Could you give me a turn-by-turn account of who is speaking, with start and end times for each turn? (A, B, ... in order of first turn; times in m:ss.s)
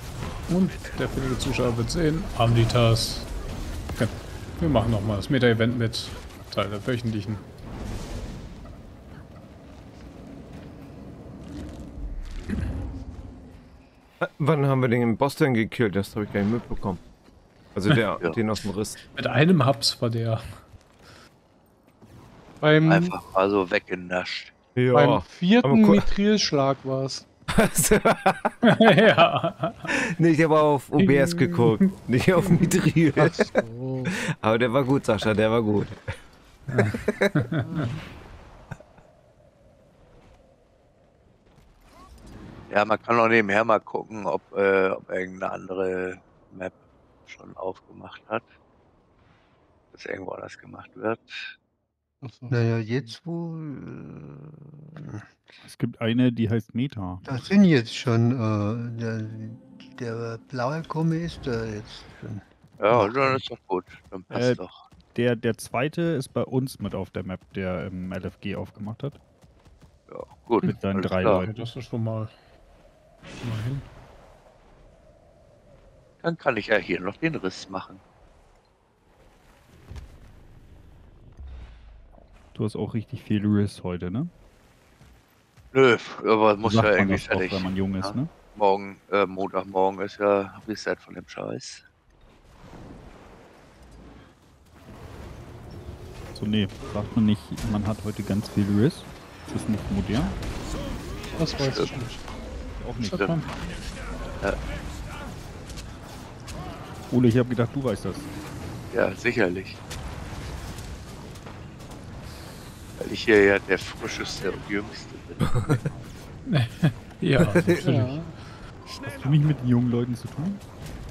0:00.5-0:03.3 A
0:04.0-0:07.4 A
0:14.2-0:17.0 B
0:17.7-0:19.0 B
0:19.0-0:20.5 A
0:22.6-0:23.2 C
0:22.9-0:24.6 D
0:24.8-0:26.1 B
0:24.9-0:27.2 C
0:27.5-0:28.6 B
0:28.6-0:29.9 A
0:30.0-0:33.5 B
0:31.0-0:31.7 A
0:33.2-0:34.1 C
0:34.1-0:36.0 B
0:36.7-0:37.6 A
0:36.9-0:37.5 B
0:42.7-0:46.8 D
0:47.3-0:48.4 D
0:49.9-0:51.5 D
0:52.2-0:53.1 C
0:52.5-0:55.4 E
0:55.6-0:57.3 F
0:57.2-1:03.4 E
1:02.8-1:04.8 D
1:04.3-1:04.6 F
1:05.1-1:09.2 F
1:10.1-1:11.4 D
1:10.6-1:11.6 F
1:10.6-1:12.3 A
1:13.4-1:13.9 A
1:16.2-1:18.0 D
1:22.5-1:24.3 F
1:25.7-1:31.8 D
1:26.6-1:28.3 F
1:36.4-1:40.4 F
1:41.3-1:41.9 D
1:41.4-1:42.2 C
1:42.8-1:43.6 F
1:43.0-1:43.5 A
1:47.1-1:48.3 F
1:48.9-1:49.8 D
1:53.0-1:55.4 D
1:55.4-1:55.9 B
1:56.5-1:58.2 A
1:57.5-1:58.1 B
1:57.8-1:58.3 C
1:58.9-2:00.6 F